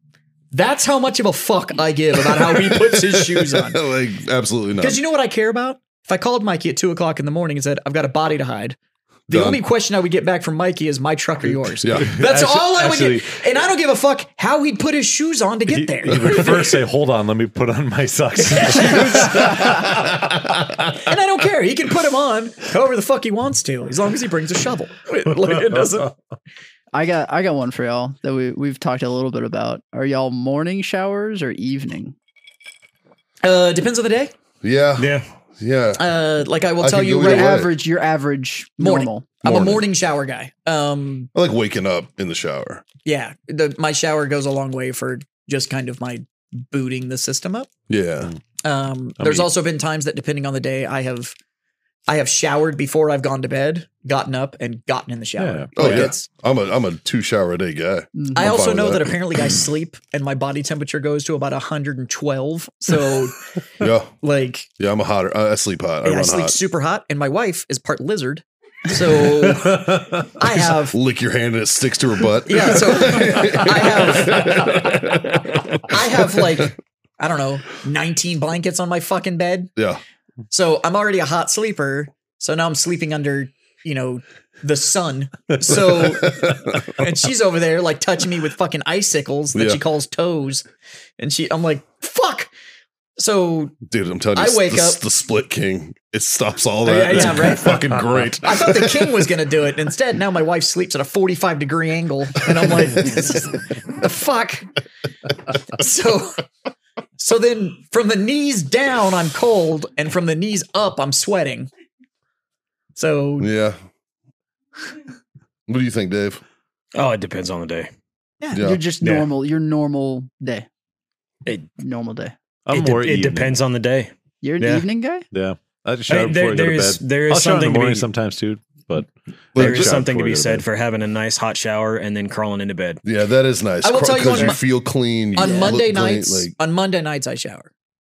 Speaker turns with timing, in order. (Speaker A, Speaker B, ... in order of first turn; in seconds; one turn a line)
Speaker A: 0.5-3.8
Speaker B: 2.3-5.0
Speaker A: 4.8-8.8
Speaker A: 9.3-16.8
Speaker B: 9.3-9.6
Speaker C: 11.5-13.4
Speaker B: 11.8-12.1
Speaker C: 15.7-21.0
Speaker A: 18.4-19.9
Speaker A: 20.9-26.1
Speaker C: 25.5-25.9
Speaker D: 26.9-32.1
Speaker A: 33.4-34.3
Speaker B: 34.6-36.0
Speaker E: 35.0-35.3
Speaker A: 36.0-37.7
Speaker B: 36.8-37.7
Speaker D: 37.3-39.4
Speaker A: 38.8-41.3
Speaker B: 39.4-39.8
Speaker B: 41.3-42.8
Speaker A: 43.0-47.7
Speaker B: 47.9-48.3
Speaker A: 48.6-51.4
Speaker C: 49.2-49.5
Speaker A: 52.1-56.3
Speaker C: 55.4-56.1
Speaker B: 55.8-59.2
Speaker A: 58.3-63.4
Speaker B: 63.8-64.1
Speaker A: 64.2-64.7
Speaker B: 64.8-66.6
Speaker A: 66.0-71.0
Speaker B: 70.5-76.6
Speaker A: 72.5-74.9
Speaker A: 75.8-79.7
Speaker B: 79.8-80.0
Speaker A: 80.5-90.7
Speaker B: 86.2-86.8
Speaker B: 89.5-89.8
Speaker A: 91.2-92.5
Speaker A: 93.2-93.8
Speaker B: 93.8-99.3
Speaker A: 94.3-95.0
Speaker A: 96.8-104.7
Speaker A: 105.7-106.4
Speaker A: 107.2-111.7
Speaker A: 113.0-113.5
Speaker B: 113.4-113.8
Speaker B: 115.7-116.4
Speaker E: 117.0-117.9
Speaker A: 118.4-118.7
Speaker B: 118.5-118.8
Speaker D: 118.6-120.7
Speaker E: 119.0-119.3
Speaker D: 121.8-122.3
Speaker C: 122.7-123.6
Speaker E: 122.7-124.9
Speaker D: 124.4-125.2
Speaker C: 125.3-130.7
Speaker E: 126.1-128.1
Speaker B: 129.6-130.0
Speaker E: 129.6-133.0
Speaker B: 133.0-136.6
Speaker A: 133.8-134.6
Speaker A: 135.3-137.7